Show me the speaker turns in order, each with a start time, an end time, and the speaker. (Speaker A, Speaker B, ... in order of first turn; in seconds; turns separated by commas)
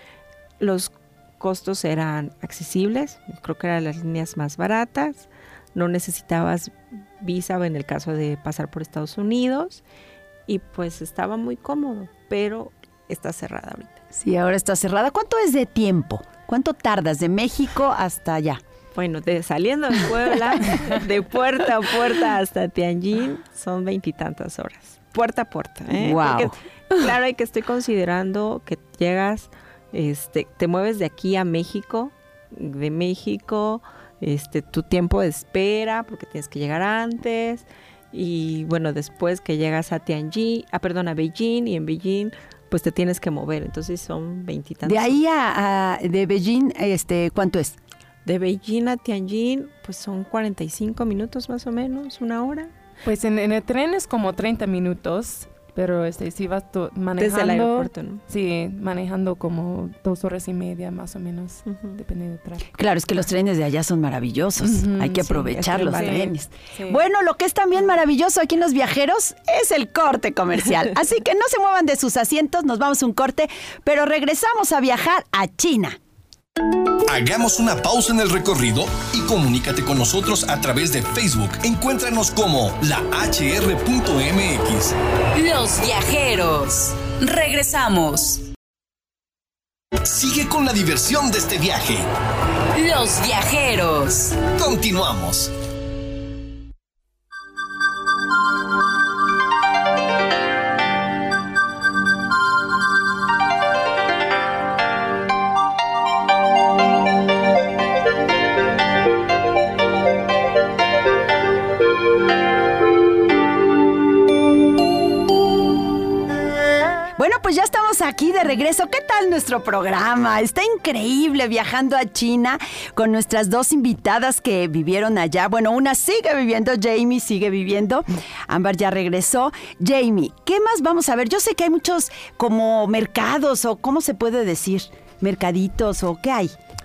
Speaker A: 0.6-9.8, Speaker A: 10.5-14.0, Speaker B: 14.1-18.6, Speaker A: 18.9-45.2, Speaker B: 25.9-26.5, Speaker B: 44.8-47.8, Speaker A: 48.2-52.7, Speaker C: 53.0-62.8, Speaker A: 57.2-58.2, Speaker A: 61.7-62.0, Speaker B: 62.7-76.0, Speaker C: 64.6-67.0, Speaker A: 65.2-66.3, Speaker D: 77.1-84.9, Speaker E: 85.3-88.5, Speaker D: 90.0-92.1, Speaker E: 92.7-94.5, Speaker D: 94.5-95.5, Speaker B: 117.2-136.5